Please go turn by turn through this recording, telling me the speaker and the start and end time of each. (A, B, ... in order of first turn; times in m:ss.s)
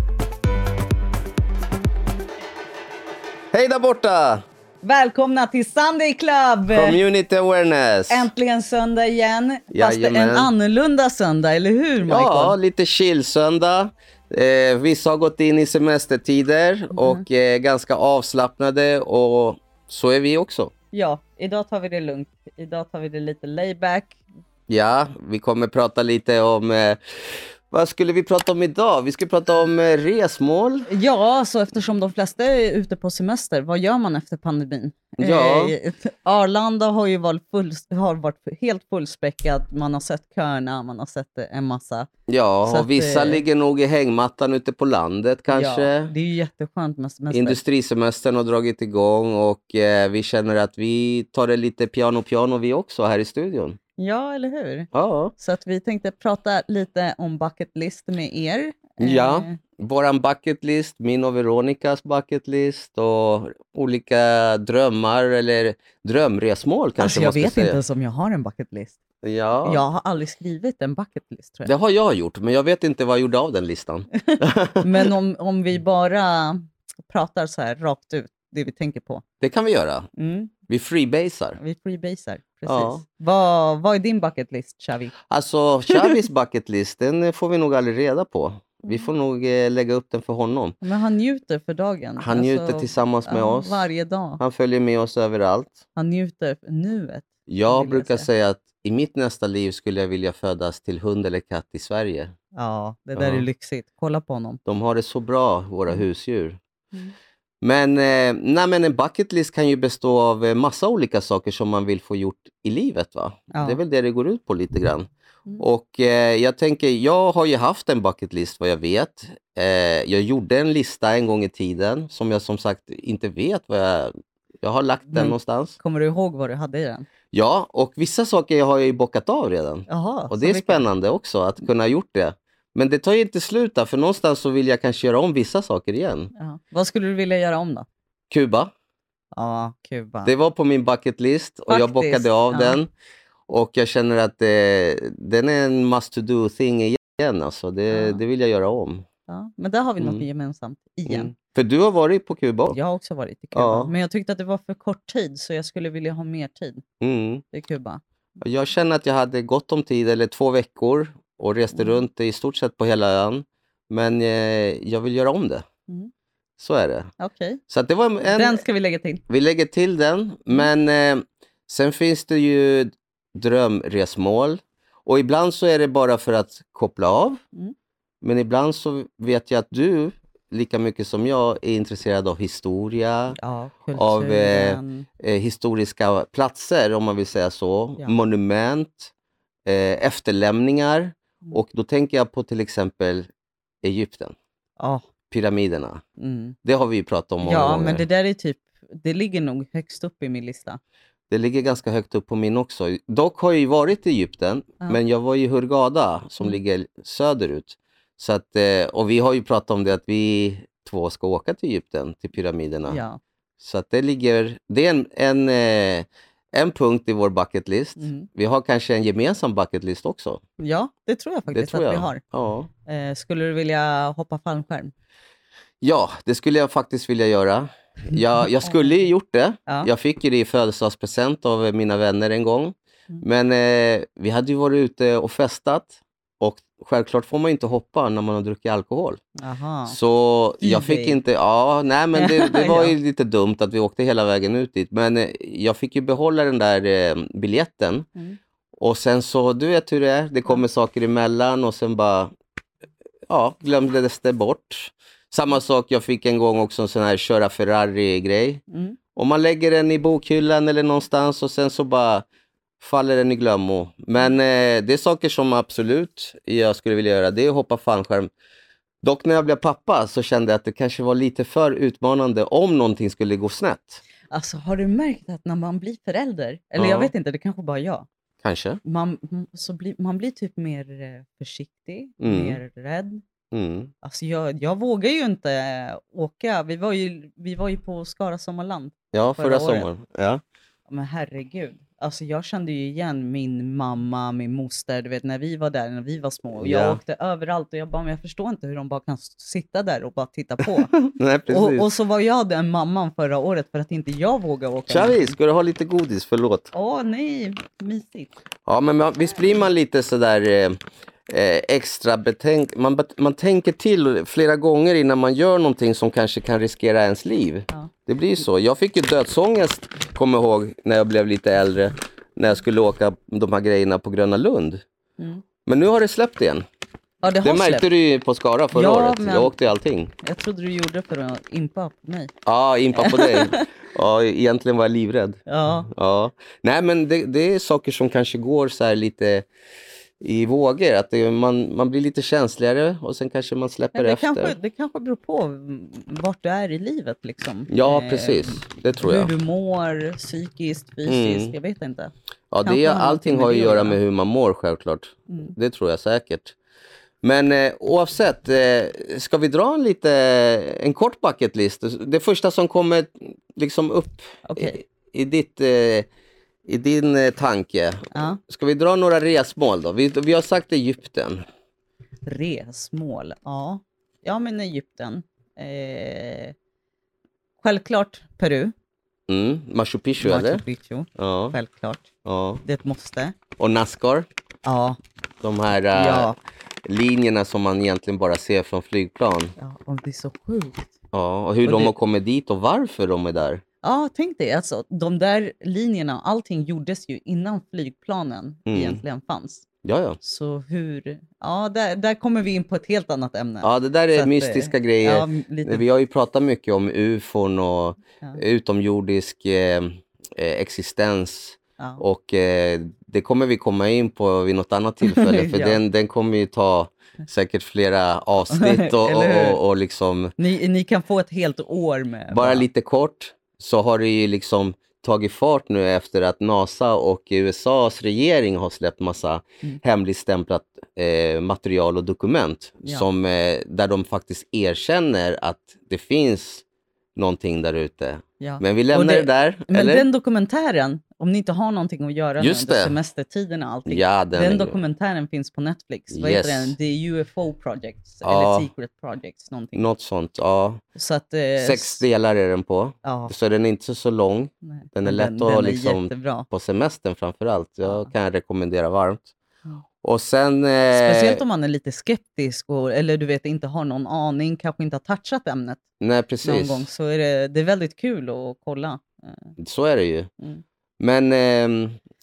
0:03.5-0:04.4 A
0:04.8-0:07.0 B
0:06.7-0:08.3 A
0:08.1-0:12.6 B
0:09.7-0:10.5 A
0:12.1-0:20.7 A
0:17.0-0:17.2 B
0:20.9-0:24.2 B
0:24.7-0:30.9 A
0:30.9-0:42.1 B
0:35.2-0:35.8 A
0:42.3-0:46.1 A
0:42.6-0:43.4 B
0:45.5-0:47.6 B
0:47.3-0:53.8 A
0:54.0-0:59.6 B
0:54.9-0:55.3 A
0:59.0-1:07.8 A
1:07.0-1:09.0 B
1:09.2-1:09.8 A
1:09.6-1:11.7 B
1:11.7-1:15.1 A
1:14.2-1:19.2 B
1:19.4-1:20.1 A
1:20.2-1:20.5 B
1:20.7-1:21.6 A
1:21.6-1:25.2 B
1:22.7-1:23.0 A
1:25.3-1:30.8 A
1:28.8-1:29.1 B
1:30.8-1:34.4 B
1:32.2-1:33.9 A
1:34.4-1:35.8 A
1:36.0-1:38.3 B
1:37.5-1:42.3 A
1:42.5-1:44.6 B
1:43.2-1:43.5 A
1:44.7-1:46.6 A
1:47.6-2:05.8 A
1:53.5-1:53.8 B
2:05.1-2:07.1 B
2:07.3-2:16.3 A
2:09.9-2:10.9 B
2:16.4-2:17.9 B
2:18.3-2:18.7 A
2:19.3-2:20.3 B
2:20.3-2:22.9 A
2:21.7-2:22.8 B
2:23.5-2:29.1 A
2:27.9-2:28.2 B
2:29.3-2:31.3 B
2:30.0-2:30.2 A
2:31.1-2:32.8 A
2:32.7-2:36.8 B
2:33.6-2:33.9 A
2:37.0-2:37.4 A
2:37.5-2:38.0 B
2:38.4-2:45.7 A
2:41.7-2:42.0 B
2:46.6-2:47.1 A
2:47.2-2:47.6 B
2:47.7-2:48.6 A
2:48.2-2:49.2 B
2:49.3-2:57.4 A
2:58.2-3:03.4 A
3:03.4-3:05.1 B
3:04.0-3:09.1 A
3:09.7-3:13.3 A
3:13.8-3:14.4 A
3:15.3-3:16.0 A
3:16.2-3:16.6 B
3:16.6-3:18.0 A
3:17.4-3:20.8 B
3:21.3-3:33.0 A
3:32.9-3:33.2 B
3:33.6-3:40.4 A
3:38.0-3:38.3 B
3:40.6-3:42.2 B
3:41.5-3:42.7 A
3:42.9-3:44.9 B
3:45.8-3:59.2 A
3:48.1-3:49.1 B
3:59.4-4:00.0 B
3:59.9-4:08.1 A
4:00.6-4:01.2 B
4:02.2-4:03.0 B
4:08.8-4:12.3 A
4:13.3-4:18.6 A
4:18.7-4:19.0 B
4:19.2-4:22.2 A
4:22.8-4:28.3 A
4:29.0-4:34.0 A
4:34.3-4:38.1 B
4:36.8-4:37.1 A
4:38.4-4:38.8 A
4:38.8-4:43.2 B
4:42.2-4:42.6 A
4:43.5-4:43.9 A
4:44.0-4:49.9 B
4:49.1-4:50.4 A
4:50.9-5:05.4 B
4:56.6-4:57.0 A
5:00.6-5:01.9 A
5:04.9-5:06.7 A
5:06.7-5:08.3 B
5:08.7-5:24.8 A
5:25.7-5:26.6 A
5:27.2-5:27.9 B
5:27.4-5:30.1 A
5:28.7-5:29.6 B
5:30.2-5:32.3 B
5:32.5-5:39.5 A
5:32.9-5:33.7 B
5:35.5-5:35.9 B
5:40.2-5:44.6 A
5:43.9-5:52.1 B
5:47.7-5:49.3 A
5:51.1-5:51.5 A
5:52.5-5:56.6 A
5:52.6-5:54.0 B
5:55.3-5:55.5 B
5:57.2-6:06.1 A
6:04.4-6:04.8 B
6:06.7-6:11.4 A
6:08.1-6:08.4 B
6:12.2-6:16.6 B
6:17.6-6:18.7 B
6:19.3-6:20.6 A
6:20.2-6:22.1 B
6:21.2-6:21.6 A
6:22.2-6:22.6 A
6:22.6-6:23.4 B
6:23.6-6:24.3 A
6:24.6-6:25.0 B
6:25.4-6:26.3 A
6:25.9-6:26.4 B
6:26.9-6:29.5 A
6:29.6-6:30.9 B
6:31.1-6:33.6 A
6:31.6-6:31.9 B
6:33.8-6:39.6 B
6:38.7-6:39.0 A
6:39.8-6:40.2 A
6:40.2-6:45.8 B
6:43.6-7:00.3 A
6:55.1-6:55.8 B
6:58.5-6:59.6 B
7:00.4-7:02.7 B
7:02.3-7:16.6 A
7:17.2-7:20.1 A
7:18.4-7:29.8 B
7:22.4-7:23.0 A
7:23.9-7:24.8 A
7:26.1-7:26.8 A
7:28.2-7:28.7 A
7:29.8-7:30.8 A
7:31.0-7:32.0 B
7:31.6-7:39.3 A
7:33.0-7:33.3 B
7:34.6-7:36.5 B
7:37.8-7:38.1 B
7:40.0-7:41.4 A
7:40.9-7:45.8 B
7:46.0-7:46.9 A
7:46.4-7:49.5 B
7:49.6-7:50.3 A
7:51.0-7:52.0 A